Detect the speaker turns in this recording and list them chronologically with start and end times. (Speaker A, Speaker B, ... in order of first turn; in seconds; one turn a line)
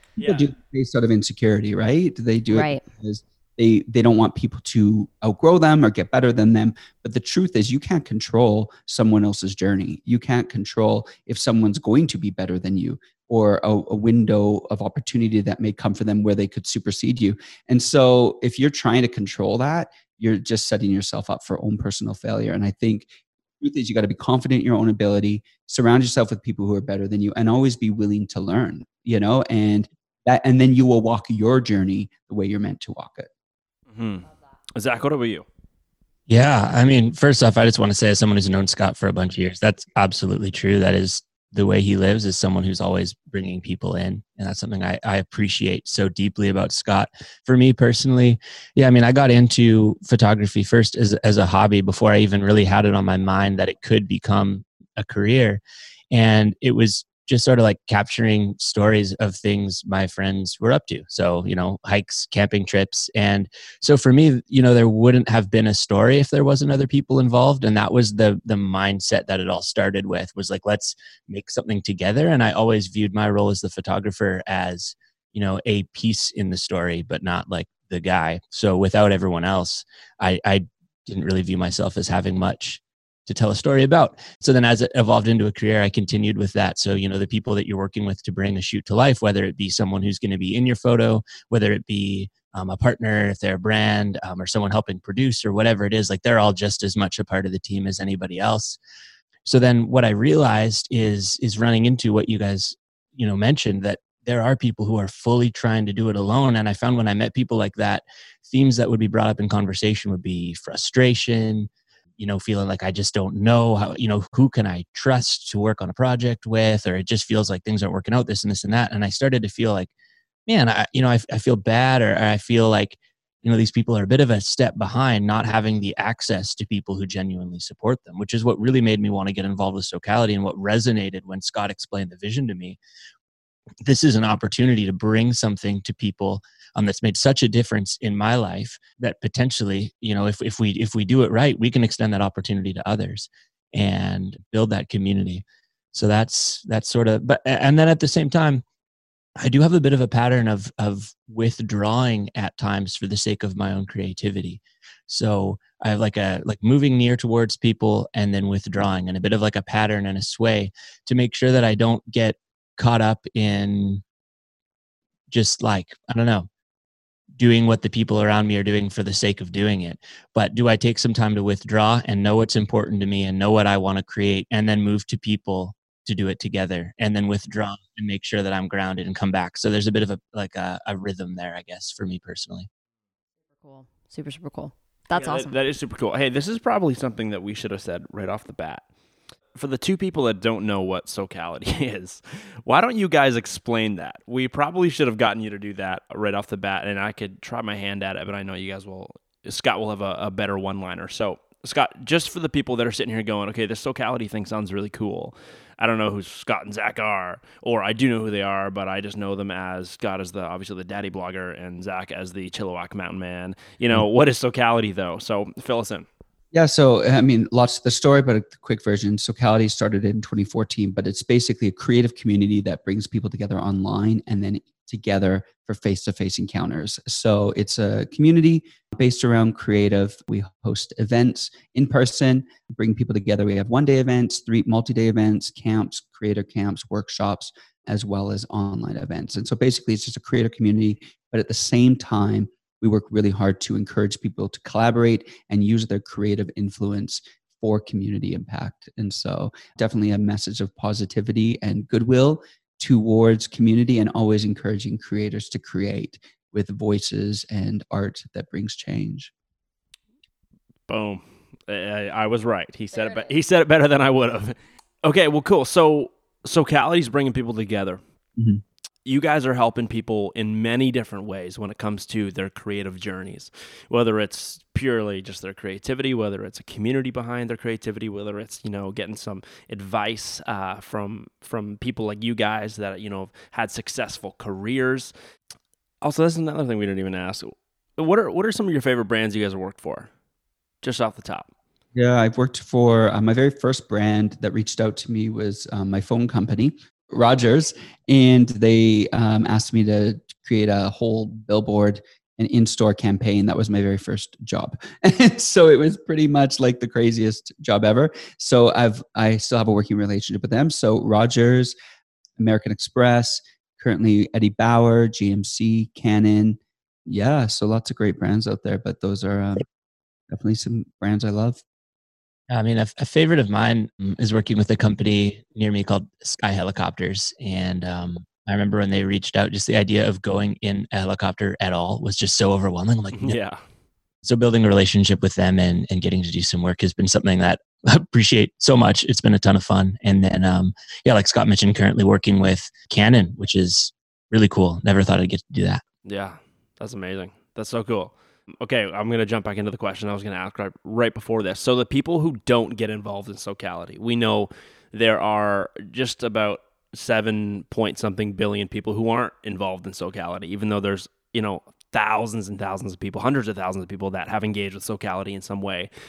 Speaker A: 0.2-23.1
Speaker B: 0.2-0.5
Speaker C: 2.5-2.8
Speaker A: 23.6-33.3
Speaker B: 33.9-35.5
Speaker D: 36.3-98.8
Speaker D: 99.5-119.9
Speaker D: 120.5-132.8
Speaker D: 133.8-148.6
Speaker D: 149.4-164.0
Speaker D: 165.3-166.5
Speaker D: 167.4-182.7
Speaker C: 183.6-185.6
Speaker B: 185.1-188.8
Speaker B: 189.6-216.1
Speaker A: 216.5-259.3
Speaker B: 260.9-268.0
Speaker C: 262.9-263.3
Speaker A: 268.4-268.6
Speaker B: 269.1-285.1
Speaker B: 286.0-290.1
Speaker B: 290.8-291.5
Speaker A: 291.9-311.8
Speaker A: 312.4-319.6
Speaker A: 320.3-321.6
Speaker D: 322.5-333.4
Speaker B: 333.1-333.6
Speaker D: 334.2-345.8
Speaker B: 346.1-365.9